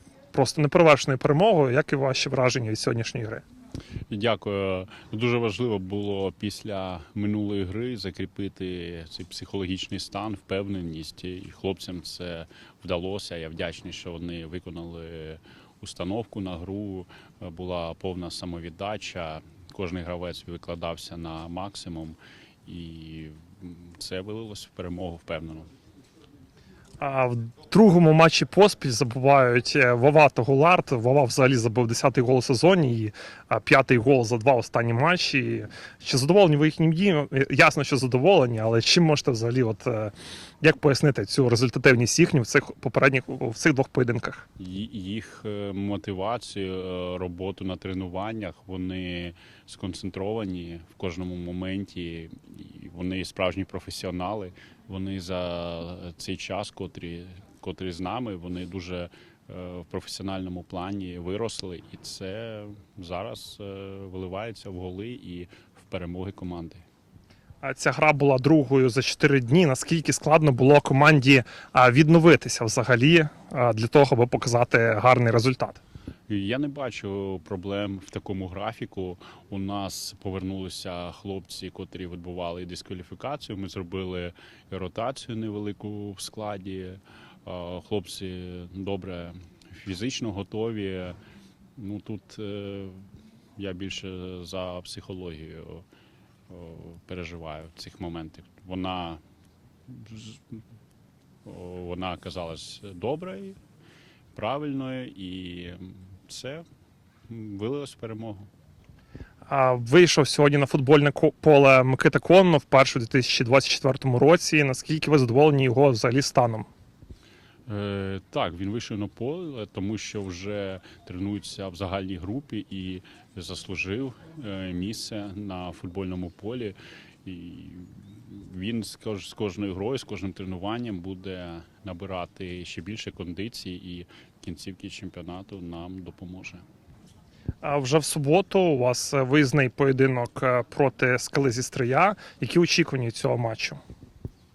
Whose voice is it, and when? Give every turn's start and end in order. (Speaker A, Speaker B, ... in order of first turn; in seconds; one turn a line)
Speaker A: 0.3-3.4
Speaker B: 4.1-25.7
Speaker A: 27.0-44.4
Speaker B: 44.6-66.8
Speaker A: 67.6-75.8
Speaker B: 76.3-91.2
Speaker B: 91.8-95.8
Speaker B: 96.5-99.2
Speaker B: 99.9-100.6
Speaker B: 101.4-103.6
Speaker B: 104.3-106.6
Speaker B: 107.3-108.5
Speaker A: 109.5-116.7
Speaker B: 117.7-136.6
Speaker A: 137.6-143.8